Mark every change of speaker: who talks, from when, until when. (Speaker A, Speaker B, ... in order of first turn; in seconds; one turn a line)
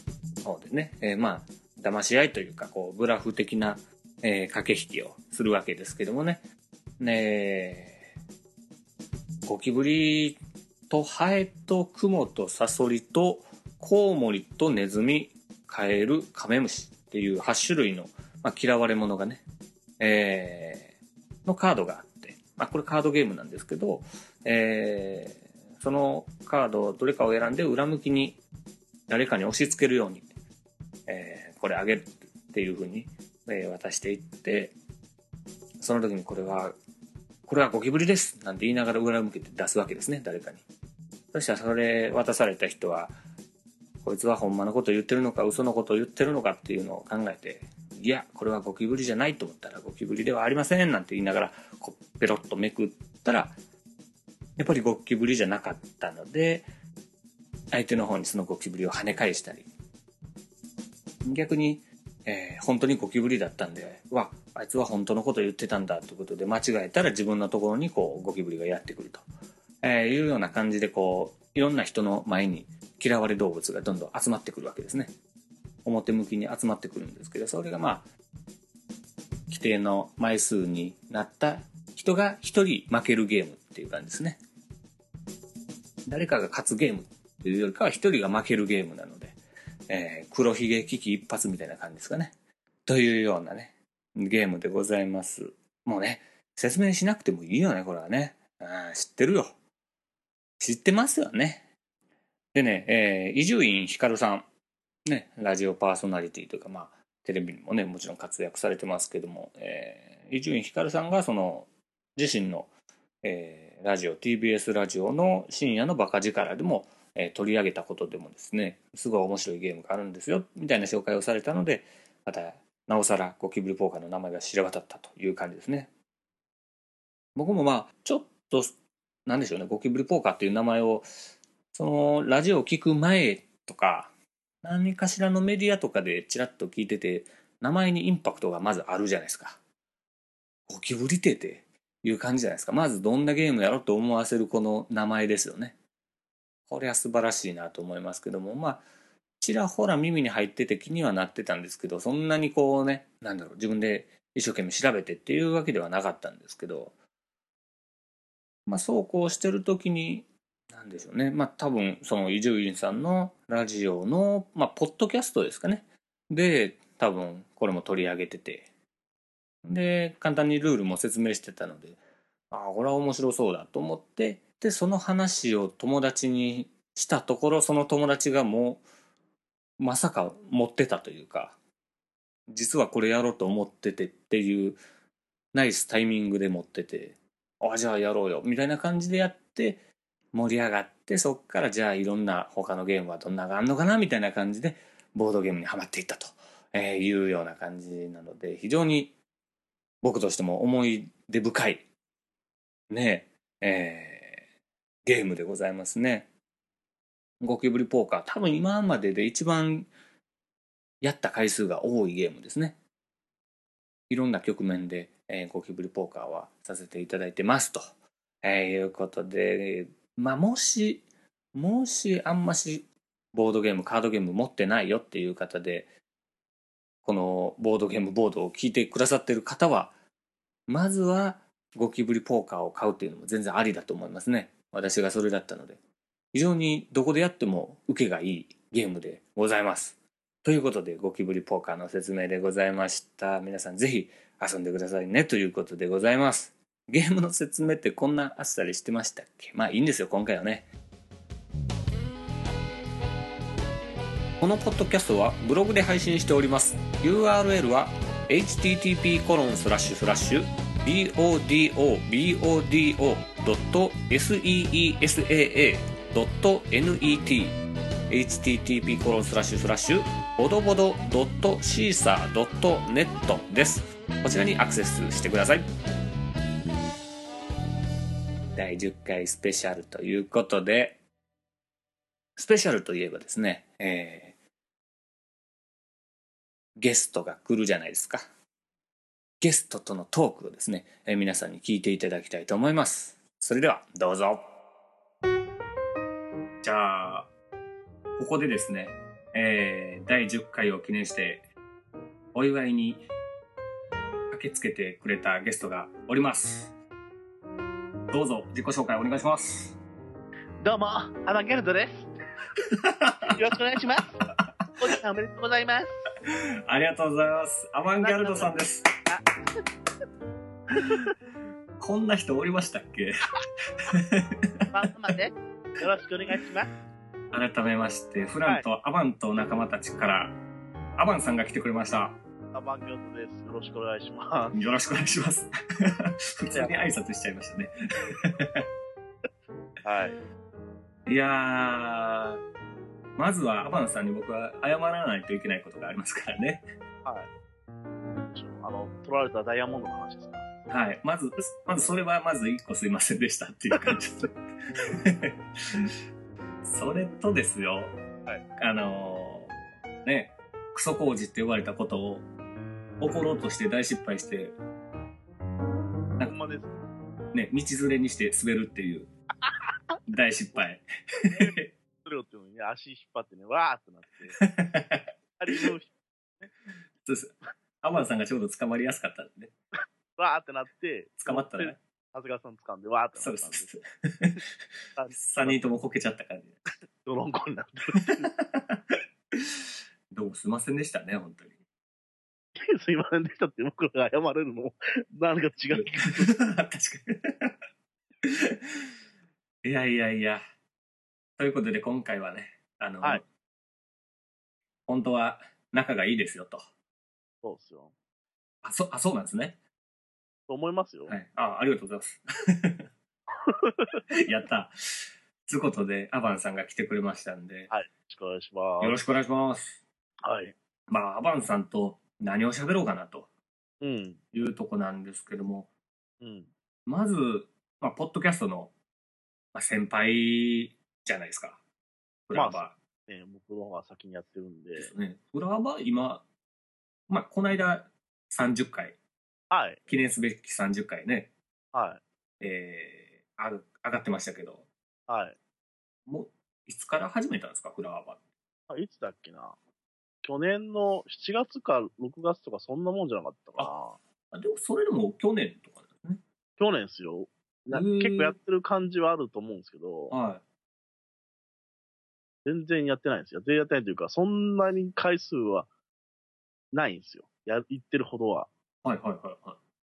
Speaker A: 0.4-6.4
Speaker A: 7.0-8.0
Speaker A: 9.4-10.4
Speaker A: 10.9-19.4
Speaker A: 20.0-20.9
Speaker A: 21.4-28.4
Speaker A: 29.1-30.3
Speaker A: 31.1-34.7
Speaker A: 35.8-36.7
Speaker A: 37.5-40.6
Speaker A: 41.3-43.1
Speaker A: 44.0-53.5
Speaker A: 54.6-56.6
Speaker A: 57.7-59.7
Speaker A: 61.2-69.2
Speaker A: 69.8-75.1
Speaker A: 75.8-78.0
Speaker A: 79.5-84.4
Speaker A: 86.1-89.3
Speaker A: 89.9-92.3
Speaker A: 92.8-99.5
Speaker A: 100.6-101.7
Speaker A: 102.5-104.5
Speaker A: 105.0-112.7
Speaker A: 113.2-125.9
Speaker A: 127.3-128.7
Speaker A: 129.2-131.1
Speaker A: 131.7-139.6
Speaker A: 140.7-145.8
Speaker A: 146.7-148.8
Speaker A: 149.4-156.9
Speaker A: 158.7-168.7
Speaker A: 169.6-172.0
Speaker A: 172.5-178.8
Speaker A: 179.8-181.6
Speaker A: 182.5-184.8
Speaker A: 185.5-189.8
Speaker A: 190.3-199.1
Speaker A: 200.0-201.8
Speaker A: 202.9-204.4
Speaker A: 205.0-206.3
Speaker A: 207.4-209.9
Speaker A: 211.0-212.8
Speaker A: 214.1-217.9
Speaker A: 218.4-225.9
Speaker A: 227.0-229.9
Speaker A: 230.7-235.8
Speaker A: 236.3-250.7
Speaker A: 254.4-267.6
Speaker A: 268.1-275.7
Speaker A: 278.5-281.0
Speaker A: 282.4-284.4
Speaker A: 286.8-288.2
Speaker A: 289.4-294.5
Speaker A: 296.6-297.3
Speaker A: 298.2-301.5
Speaker A: 302.3-303.1
Speaker A: 304.3-306.7
Speaker A: 308.1-309.8
Speaker B: 310.6-312.1
Speaker A: 312.6-313.4
Speaker B: 313.3-314.2
Speaker B: 314.8-316.0
Speaker A: 316.2-318.9
Speaker B: 318.0-319.2
Speaker A: 320.8-321.1
Speaker A: 321.8-323.1
Speaker A: 323.8-324.6
Speaker B: 324.7-326.7
Speaker A: 327.3-330.4
Speaker A: 331.0-332.2
Speaker B: 332.5-334.6
Speaker A: 334.5-338.6
Speaker B: 336.5-336.8
Speaker B: 339.8-340.2
Speaker A: 341.1-342.4
Speaker A: 343.2-346.6
Speaker B: 347.0-347.3
Speaker B: 348.3-350.5
Speaker A: 350.7-354.4
Speaker A: 355.0-355.9
Speaker A: 356.6-358.0
Speaker A: 358.6-362.2
Speaker A: 363.0-364.6
Speaker B: 366.2-366.7
Speaker A: 367.3-369.1
Speaker B: 369.4-369.7
Speaker A: 370.1-371.7
Speaker B: 371.3-374.4
Speaker A: 374.3-375.7
Speaker B: 375.4-376.5
Speaker A: 377.0-379.5
Speaker B: 380.2-383.7
Speaker A: 381.2-381.8
Speaker A: 383.2-386.6
Speaker B: 384.9-385.7
Speaker B: 387.0-388.3
Speaker A: 387.9-389.5
Speaker A: 390.1-391.6
Speaker B: 392.5-396.4
Speaker A: 395.7-397.5
Speaker A: 398.2-398.6
Speaker A: 399.6-400.4
Speaker A: 401.4-403.2
Speaker A: 404.9-406.6
Speaker B: 407.4-407.9
Speaker A: 408.6-409.6
Speaker B: 410.5-411.1
Speaker A: 411.1-412.9
Speaker B: 413.4-414.0
Speaker A: 414.1-417.7
Speaker B: 417.7-419.0
Speaker A: 418.8-419.8
Speaker B: 420.2-420.5
Speaker A: 420.9-423.3
Speaker B: 423.8-424.2
Speaker A: 424.3-425.7
Speaker B: 426.2-426.5
Speaker A: 426.9-428.7
Speaker A: 429.5-431.6
Speaker A: 432.3-432.8
Speaker B: 432.3-434.9
Speaker A: 434.8-436.2
Speaker A: 437.1-439.0
Speaker B: 439.5-439.9
Speaker A: 439.9-441.3
Speaker B: 441.7-442.0
Speaker A: 442.4-444.6
Speaker B: 445.1-445.4
Speaker A: 446.1-448.2
Speaker B: 448.7-449.6
Speaker B: 450.2-454.0
Speaker A: 454.3-456.2
Speaker B: 456.6-460.1
Speaker A: 457.7-458.4
Speaker A: 460.1-460.4
Speaker B: 462.4-465.7
Speaker B: 466.7-468.5
Speaker A: 468.8-469.6